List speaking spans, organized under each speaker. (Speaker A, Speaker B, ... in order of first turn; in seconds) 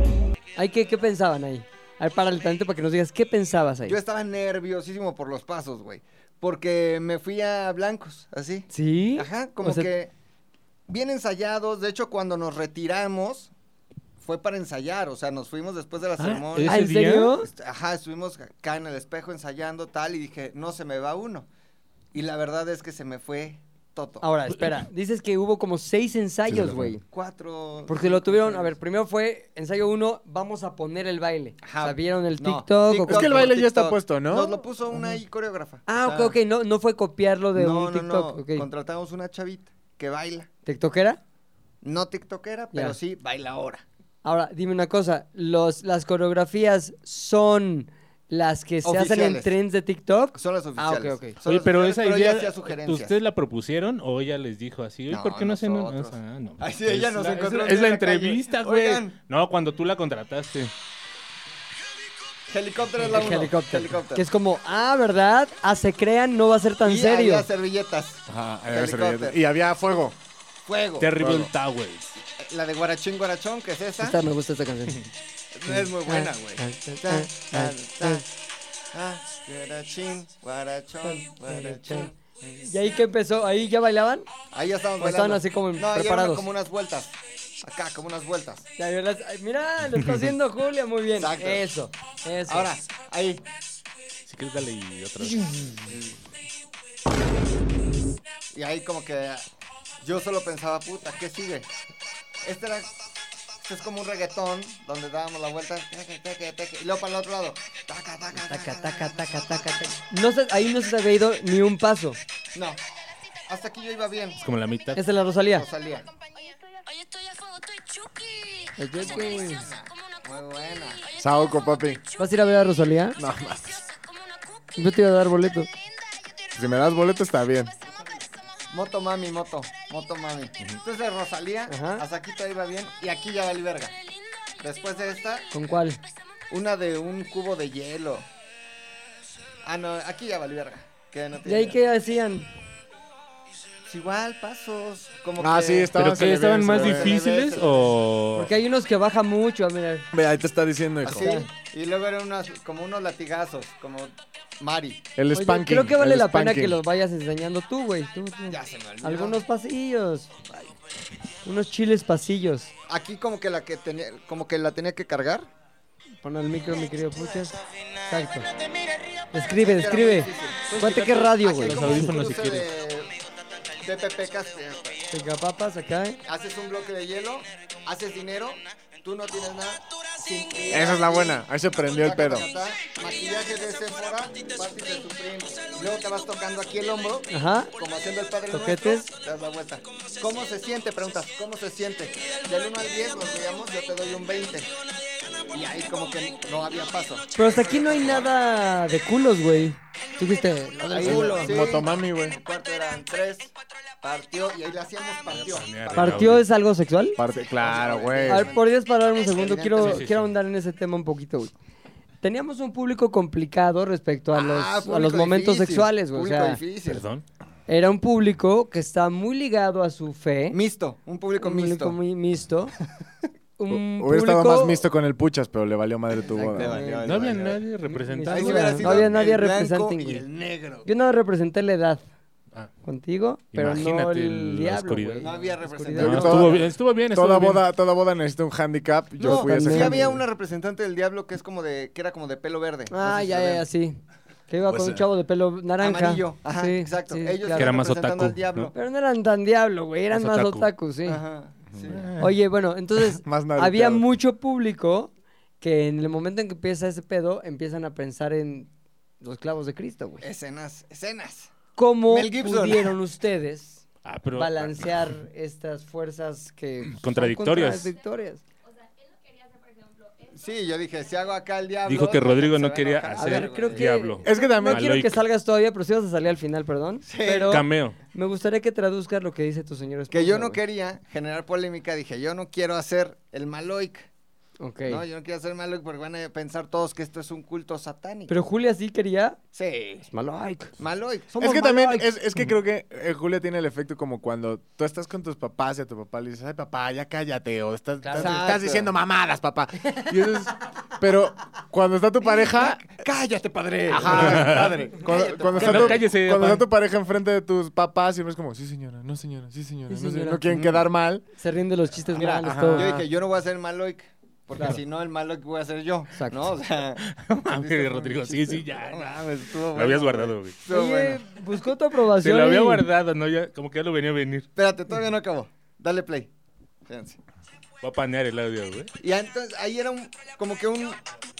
Speaker A: 0.6-4.0, 8.7-9.9, 16.7-17.5, 24.2-27.0, 27.9-33.5, 35.9-38.7, 40.7-41.2, 44.2-51.4, 63.0-67.5, 74.0-75.0, 75.7-78.2, 81.0-82.1, 82.7-84.3, 85.0-86.5, 88.8-92.7, 108.3-112.2, 115.0-115.7, 118.8-119.7, 122.2-123.2, 124.8-125.7, 131.7-132.0, 135.5-136.0, 141.4-142.5, 148.4-150.1, 151.2-151.5, 155.3-160.3, 161.4-162.7, 166.2-167.6, 168.1-168.5, 169.3-172.0, 175.1-176.2, 187.3-187.7, 188.5-189.1, 197.3-201.8, 205.9-207.2, 208.3-211.5, 212.2-216.6, 217.7-220.6, 221.4-222.7, 223.6-224.8, 226.2-227.3, 227.8-230.2, 230.8-232.0, 232.8-236.6, 239.3-240.2, 242.9-244.0, 244.5-247.7, 248.7-251.2, 252.2-258.7, 259.2-260.2, 261.8-263.8, 264.4-268.4, 273.2-280.6, 284.6-285.0, 288.3-289.4, 290.1-290.8, 298.0-298.5, 309.9-310.5, 311.4-313.0, 316.1-316.4, 320.7-322.9
Speaker B: 3.9-10.1, 10.9-13.5, 14.2-16.8, 17.5-21.5, 22.1-24.2, 27.1-28.8, 31.6-36.4, 37.5-40.5, 41.8-43.8, 48.8-49.5, 50.4-53.2, 55.1-59.1, 62.5-64.3, 66.8-69.4, 70.7-71.2, 72.4-74.2, 75.5-78.3, 78.9-82.7, 84.5-88.7, 91.2-91.7, 92.5-93.5, 95.9-96.2, 98.5-99.5, 100.0-101.7, 102.4-103.0, 103.6-109.9, 112.5-112.8, 113.5-114.4, 115.5-116.1, 119.0-121.0, 128.7-133.9, 134.6-135.5, 136.5-138.3, 139.6-141.8, 143.9-146.0, 146.6-147.9, 151.0-155.0, 158.5-159.4, 162.9-165.5, 169.6-173.1, 173.8-175.0, 176.2-194.7, 195.5-198.3, 200.8-203.5, 204.0-206.4, 207.5-210.0, 214.3-217.0, 220.5-222.0, 226.6-227.6, 228.3-230.9, 235.2-236.7, 239.2-243.7, 245.8-248.8, 251.1-252.1, 260.2-261.5, 262.1-262.9, 270.3-273.9, 277.1-277.6, 280.1-284.1, 284.9-288.4, 289.5-290.1, 290.8-292.1, 298.1-298.9, 302.2-306.1, 310.5-310.9, 312.1-321.3, 324.6-326.3, 326.9-327.2, 329.0-331.0
Speaker C: 16.2-17.4, 51.4-60.7, 71.0-72.1, 94.3-95.7, 114.4-115.0, 145.9-148.5, 171.6-172.7, 205.3-206.4, 209.8-210.3, 216.9-217.2, 227.1-229.1, 233.5-237.6, 247.6-248.7, 250.1-250.7, 251.9-252.1, 264.1-265.2, 266.9-267.9, 271.9-275.1, 277.5-278.0, 303.9-304.8, 305.5-306.6, 317.0-320.6, 322.1-324.5, 327.8-328.9
Speaker D: 26.6-26.8, 33.1-34.6, 68.3-70.2, 71.2-71.5, 121.2-122.0, 123.2-123.8, 126.6-127.7, 145.4-147.2, 150.1-151.3, 155.2-156.8, 180.7-182.5, 201.0-202.4, 207.2-208.5, 223.7-226.9, 236.0-240.1, 244.7-245.0, 253.0-254.1, 274.2-275.0, 291.4-302.9, 303.9-311.2, 312.4-313.0
Speaker E: 116.2-120.2, 121.4-122.0, 123.7-124.7, 126.0-126.5, 134.2-134.6, 269.4-270.1